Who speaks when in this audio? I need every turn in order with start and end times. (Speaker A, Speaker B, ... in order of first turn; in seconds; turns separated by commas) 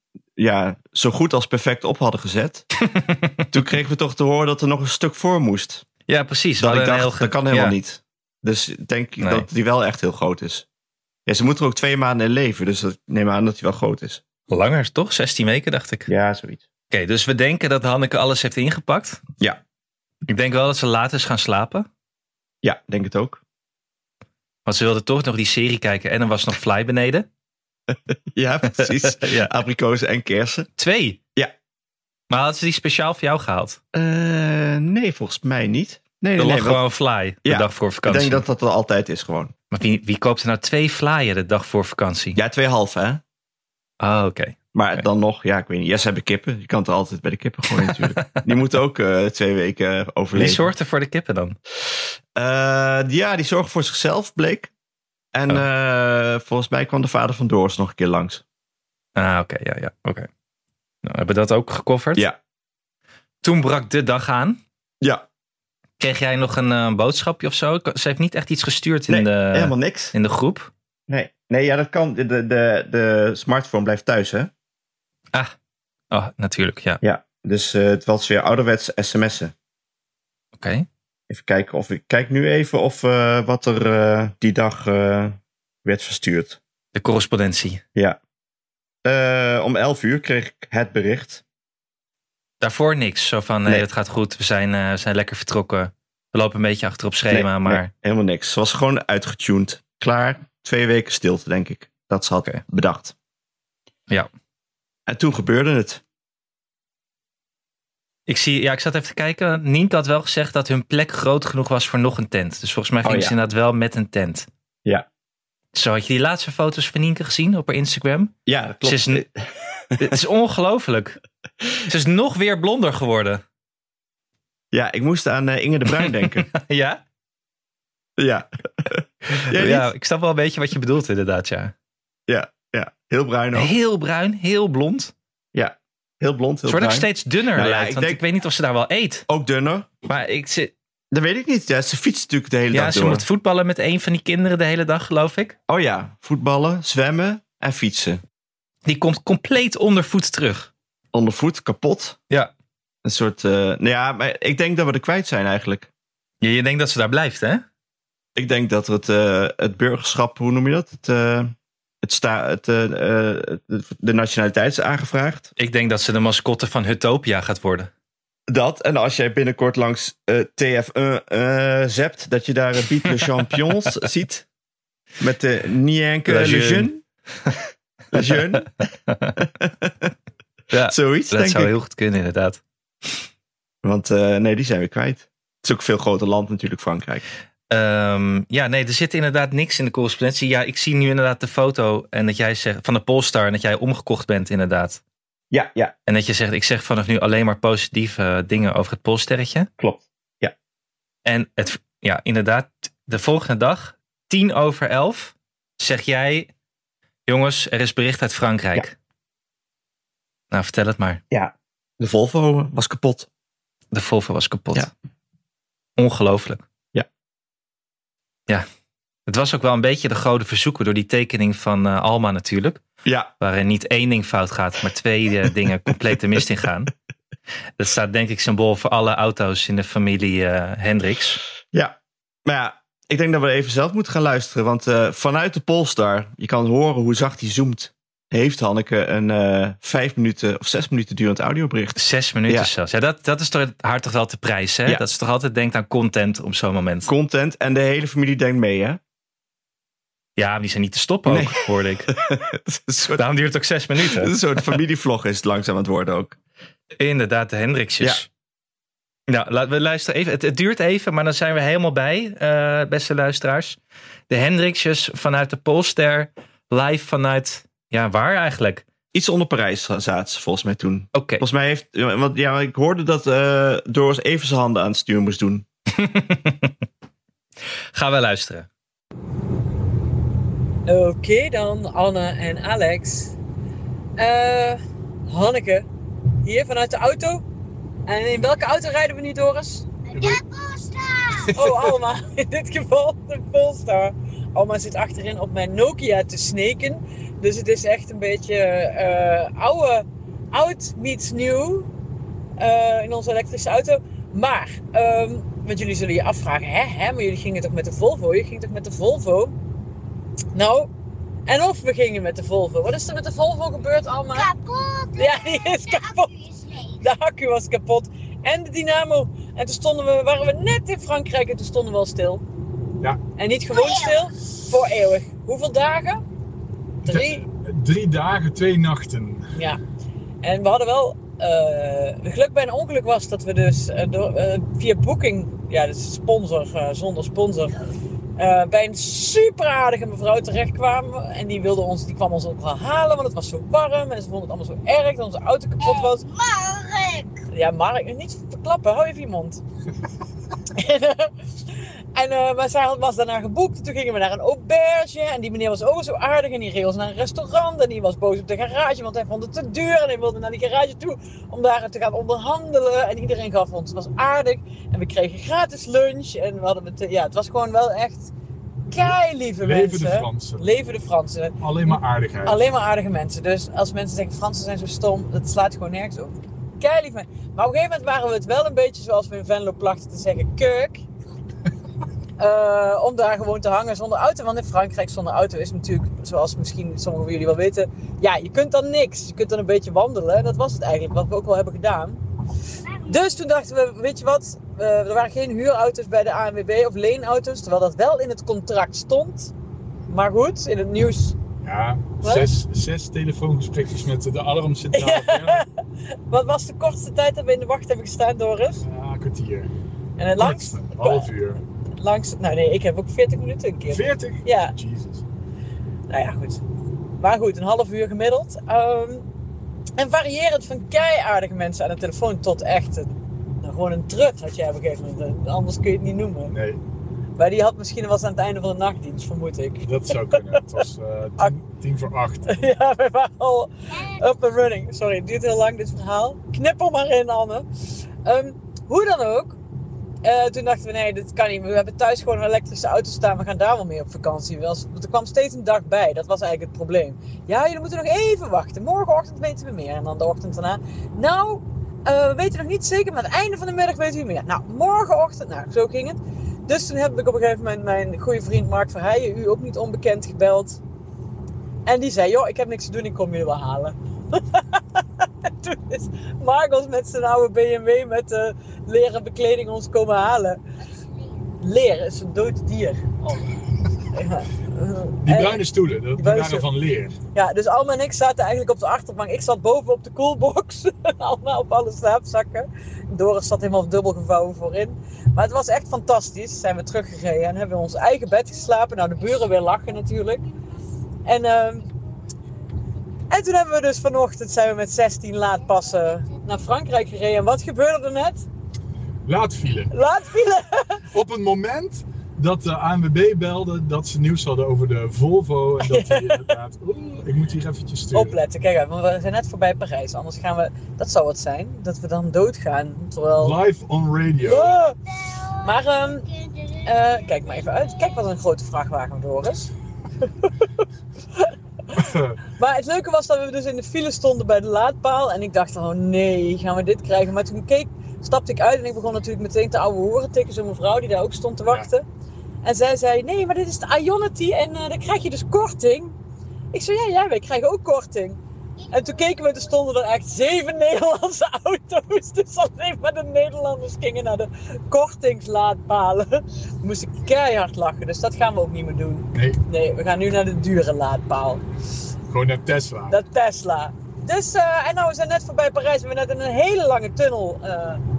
Speaker A: 0.4-2.7, Speaker B: 2.9-3.5, Speaker A: 3.5-5.8, Speaker B: 6.1-7.8, Speaker A: 6.6-10.7, Speaker B: 9.2-9.5, Speaker A: 11.3-14.2, Speaker B: 14.5-16.1, Speaker A: 16.1-16.6, Speaker B: 16.9-19.2, Speaker B: 20.3-21.9, Speaker A: 22.6-23.4, Speaker B: 24.7-27.3, Speaker A: 27.9-30.7, Speaker B: 28.8-29.5, Speaker B: 30.8-31.2, Speaker B: 32.3-33.8, Speaker A: 33.9-36.8, Speaker B: 36.4-38.4, Speaker A: 37.4-39.5, Speaker B: 39.7-42.4, Speaker A: 42.4-43.2, Speaker B: 44.0-45.0, Speaker A: 44.7-50.6, Speaker B: 47.7-48.4, Speaker B: 50.4-51.6, Speaker A: 52.4-54.7, Speaker A: 55.3-58.4, Speaker B: 59.2-60.3, Speaker B: 61.0-62.3, Speaker B: 63.4-64.6, Speaker A: 65.0-65.3, Speaker B: 66.0-70.7, Speaker A: 69.1-70.1, Speaker A: 71.1-74.5, Speaker B: 76.1-77.0, Speaker A: 77.0-79.5, Speaker B: 80.6-80.9, Speaker A: 81.3-86.6, Speaker B: 87.0-87.8, Speaker A: 89.0-91.4, Speaker B: 92.6-97.9, Speaker A: 97.3-103.2, Speaker A: 105.1-106.0, Speaker B: 108.3-114.5, Speaker A: 113.0-113.3, Speaker B: 115.7-119.2, Speaker A: 118.5-120.2, Speaker B: 120.0-121.2, Speaker B: 121.9-123.4, Speaker A: 124.7-126.5, Speaker B: 125.9-127.0, Speaker A: 128.2-129.9, Speaker B: 129.5-131.7, Speaker A: 132.3-133.7, Speaker B: 133.6-135.1, Speaker A: 135.5-138.2, Speaker B: 136.7-139.3, Speaker A: 139.3-139.9, Speaker B: 140.1-140.7, Speaker A: 141.1-143.2, Speaker B: 142.7-145.6, Speaker A: 145.7-148.2, Speaker B: 148.9-150.7, Speaker A: 151.1-152.2, Speaker A: 153.0-155.9, Speaker B: 156.4-157.6, Speaker A: 158.4-165.5, Speaker B: 165.6-167.9, Speaker A: 168.5-174.5, Speaker A: 175.2-177.0, Speaker B: 176.3-176.9, Speaker A: 178.1-178.7, Speaker B: 179.1-179.3, Speaker A: 179.4-180.1, Speaker B: 180.7-182.6, Speaker A: 180.9-181.7, Speaker A: 183.8-187.2, Speaker B: 187.7-195.0, Speaker A: 195.5-195.9, Speaker B: 196.1-199.7, Speaker A: 199.8-200.5, Speaker B: 201.2-206.5, Speaker B: 207.3-208.9, Speaker B: 210.5-211.2, Speaker A: 211.3-213.3, Speaker B: 213.9-214.9, Speaker B: 216.0-216.6, Speaker B: 219.3-222.8, Speaker A: 223.1-223.3, Speaker B: 223.4-226.9, Speaker B: 227.8-231.4, Speaker A: 231.7-242.7, Speaker B: 242.0-247.1, Speaker A: 247.1-249.0, Speaker B: 250.4-252.1, Speaker A: 251.3-253.2, Speaker B: 253.2-254.3, Speaker A: 254.0-256.4, Speaker B: 257.0-258.3, Speaker B: 259.3-263.8, Speaker B: 264.3-268.9, Speaker A: 269.1-275.6, Speaker B: 271.1-271.4, Speaker B: 276.0-276.7, Speaker B: 277.9-278.7, Speaker C: 280.9-283.4, Speaker C: 284.2-285.9, Speaker C: 286.4-287.4, Speaker C: 288.1-289.9, Speaker D: 290.1-291.6, Speaker E: 290.1-290.4, Speaker C: 291.5-301.9, Speaker E: 291.6-291.9, Speaker C: 302.6-309.6, Speaker C: 310.5-310.9, Speaker C: 311.5-314.5, Speaker D: 314.3-317.0, Speaker C: 315.2-316.3, Speaker C: 317.0-322.4, Speaker C: 323.4-326.2, Speaker D: 323.7-324.2, Speaker C: 327.0-327.4, Speaker E: 327.1-329.5, Speaker C: 329.6-329.8, Speaker C: 330.4-337.8, Speaker C: 338.4-346.2, Speaker D: 345.8-347.4, Speaker C: 347.5-349.6, Speaker C: 350.7-351.3, Speaker C: 352.1-368.3, Speaker C: 368.9-381.0, Speaker E: 368.9-370.7, Speaker E: 371.6-372.7, Speaker C: 382.4-392.2, Speaker C: 393.1-399.5, Speaker C: 400.1-401.4, Speaker E: 401.6-405.6, Speaker C: 402.2-402.5, Speaker C: 404.9-405.7, Speaker C: 406.3-408.8, Speaker E: 408.8-409.7, Speaker C: 410.2-411.3, Speaker E: 410.4-411.6, Speaker C: 412.0-414.7, Speaker E: 413.9-415.2, Speaker C: 416.1-416.6, Speaker C: 417.2-419.2, Speaker C: 420.0-426.6, Speaker E: 426.5-426.8, Speaker C: 427.4-430.6, Speaker E: 429.8-432.5, Speaker C: 432.5-437.7, Speaker D: 433.9-434.2, Speaker C: 438.3-439.6, Speaker C: 440.2-460.8, Speaker C: 461.9-470.6, Speaker C: 471.6-473.5, Speaker C: 474.1-475.6, Speaker E: 475.2-477.2, Speaker C: 476.2-476.7, Speaker C: 477.3-490.5, Speaker C: 491.2-491.9, Speaker C: 493.3-498.5, Speaker E: 499.3-499.9, Speaker C: 499.9-501.0, Speaker E: 501.1-508.4, Speaker C: 505.9-506.4, Speaker C: 508.1-513.6, Speaker E: 513.4-514.8, Speaker C: 514.4-515.0, Speaker D: 515.2-517.7, Speaker C: 515.6-516.3, Speaker C: 516.9-519.7, Speaker C: 521.4-522.0, Speaker E: 521.9-522.4, Speaker C: 522.6-532.0, Speaker C: 532.6-536.1, Speaker C: 536.7-538.4, Speaker C: 538.9-551.6, Speaker E: 549.3-549.6, Speaker E: 552.3-553.2, Speaker C: 553.1-558.0